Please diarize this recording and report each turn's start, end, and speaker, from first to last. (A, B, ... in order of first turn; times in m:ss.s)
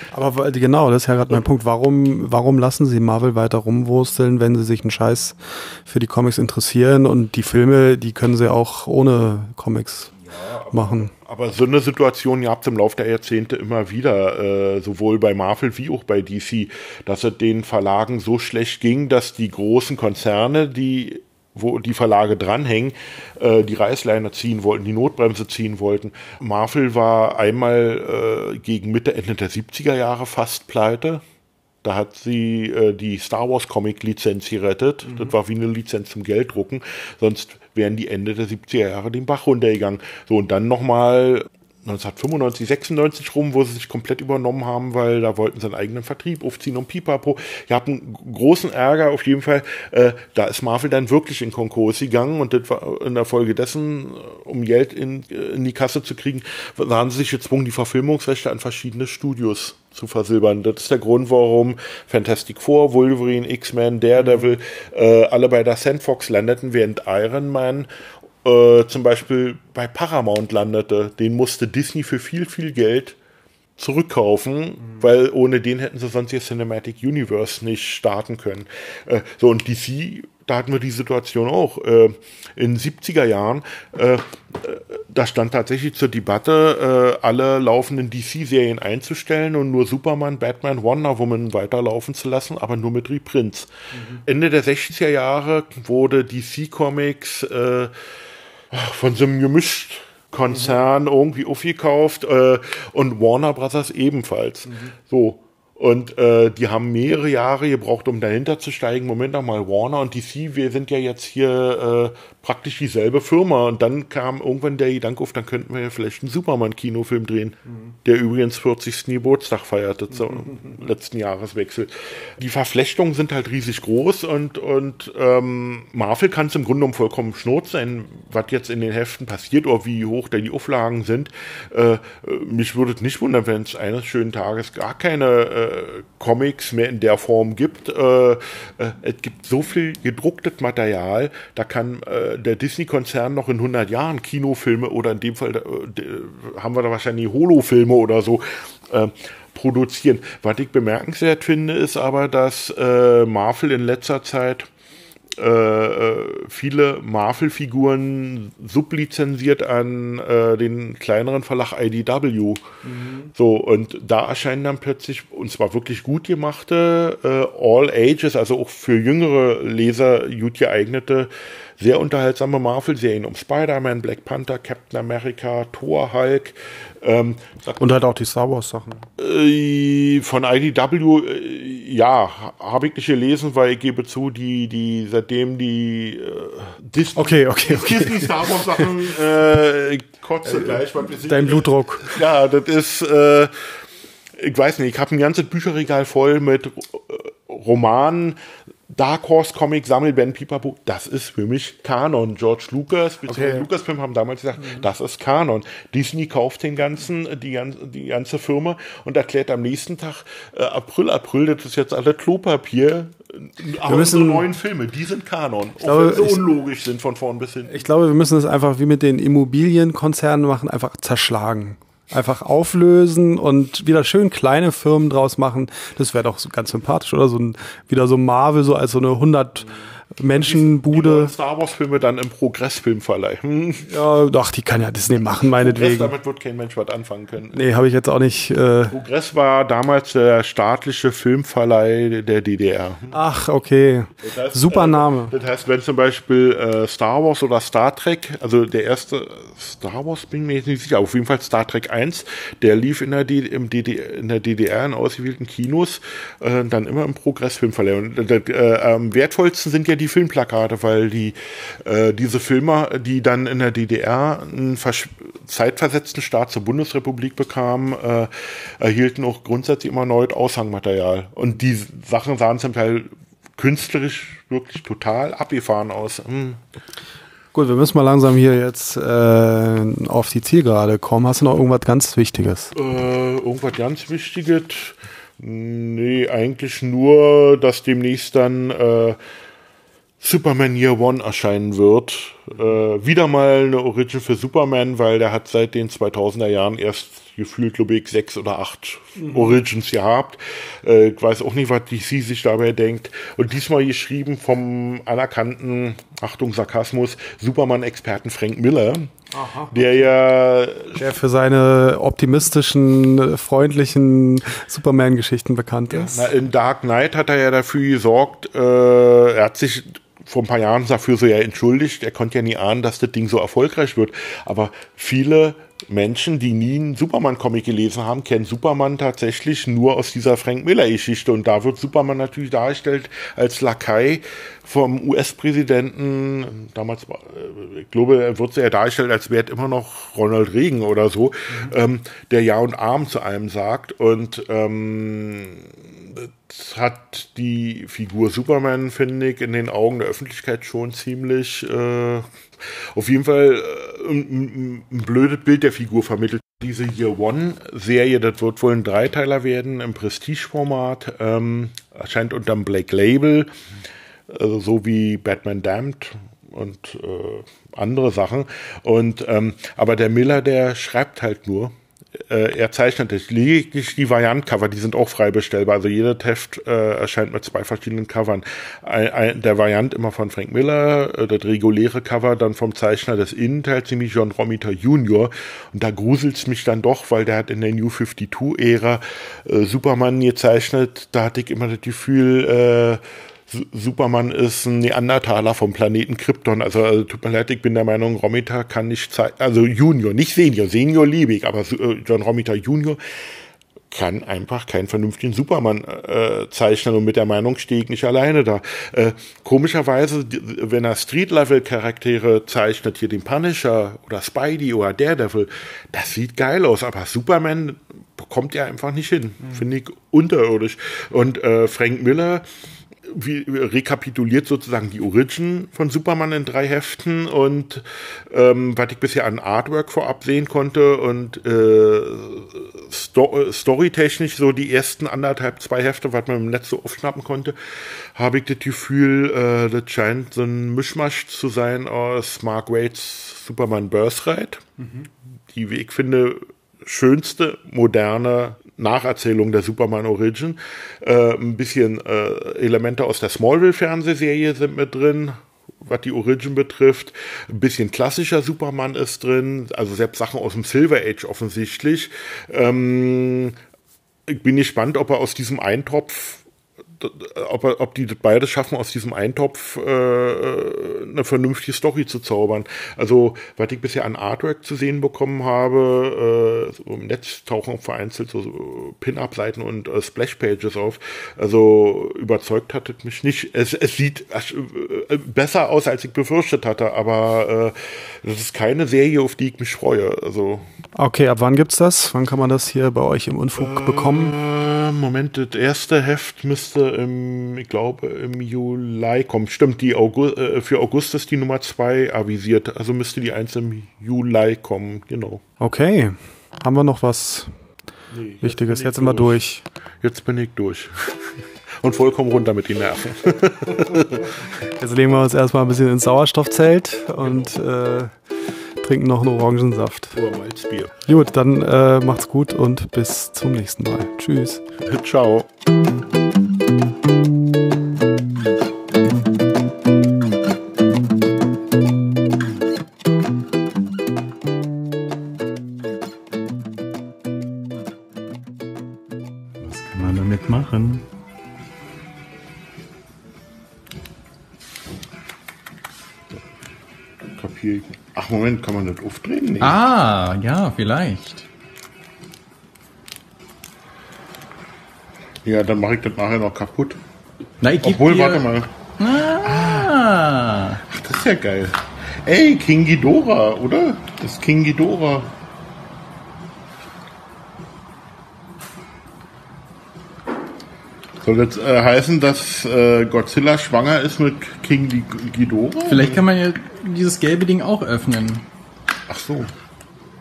0:00.1-0:05.3 A
0:05.8-0:10.1 A
0:10.3-0:31.2 B
0:10.7-0:11.1 A
0:31.8-1:07.9 B
1:08.4-1:13.2 B
1:13.8-1:33.7 B
1:34.2-1:37.9 B
1:38.7-2:34.7 B
2:35.4-2:42.7 B
2:43.2-2:57.8 B
2:57.8-2:59.0 A
2:59.2-3:13.8 B
3:07.2-3:08.9 A
3:10.5-3:12.2 A
3:14.3-3:37.8 B
3:23.3-3:23.7 A
3:33.8-3:34.5 A
3:35.8-3:36.4 A
3:37.7-3:51.3 A
3:50.3-3:53.9 B
3:53.9-3:56.1 A
3:55.4-3:57.6 B
3:57.5-3:59.0 A
3:58.9-4:03.2 B
4:03.1-4:05.3 A
4:04.2-4:36.6 B
4:37.5-4:42.7 A
4:42.7-4:49.2 B
4:50.2-5:09.1 B
4:59.2-4:59.6 A
5:09.3-5:09.8 A
5:09.7-5:11.0 B
5:10.9-5:16.2 A
5:15.9-6:03.5 B
6:04.3-6:43.0 B
6:43.9-7:02.5 B
7:03.0-7:24.7 B
7:25.5-7:43.6 B
7:44.3-7:46.4 B
7:47.0-8:10.6 B
8:10.9-8:14.3 A
8:13.6-8:25.4 B
8:25.6-8:27.5 A
8:28.1-8:29.4 B
8:28.4-8:29.6 A
8:30.0-8:34.4 B
8:34.8-8:38.2 A
8:37.2-8:37.5 B
8:38.8-8:40.2 A
8:40.1-8:41.0 B
8:41.1-8:44.6 A
8:44.8-8:45.5 B
8:59.6-9:01.0 C
9:07.3-9:09.8 B
9:09.6-9:11.4 C
9:15.4-9:17.0 B
9:17.6-9:20.8 C
9:17.8-9:18.7 B
9:19.2-9:19.9 B
9:20.8-9:25.3 B
9:31.2-9:36.2 B
9:35.8-9:38.4 C
9:39.1-9:39.5 B